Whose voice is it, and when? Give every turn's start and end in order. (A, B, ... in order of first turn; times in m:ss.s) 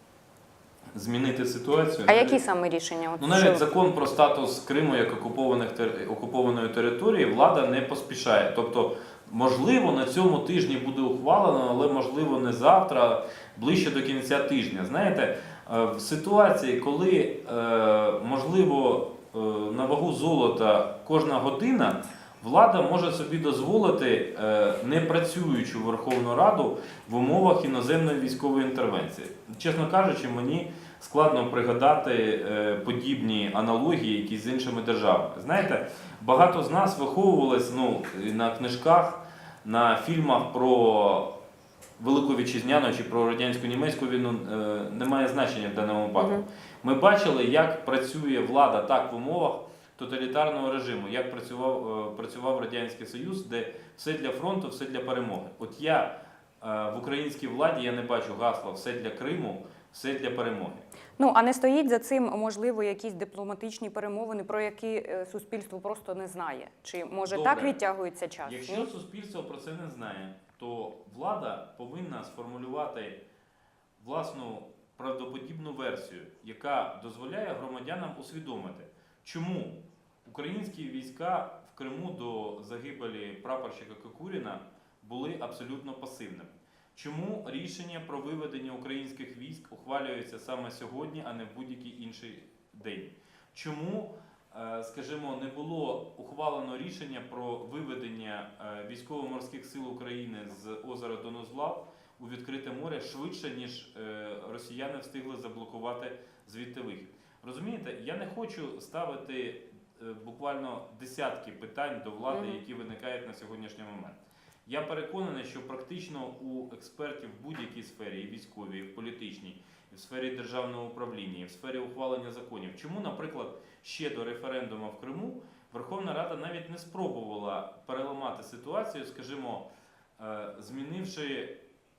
0:00.9-0:02.4 A
0:02.1-0:03.6 B
0:03.2-0:41.3 A
0:42.0-1:00.8 A
0:46.2-0:46.4 B
1:01.2-1:08.9 B
1:07.2-1:07.8 A
1:08.4-1:13.2 A
1:14.0-2:09.7 A
1:52.3-1:52.6 B
2:10.2-2:11.6 A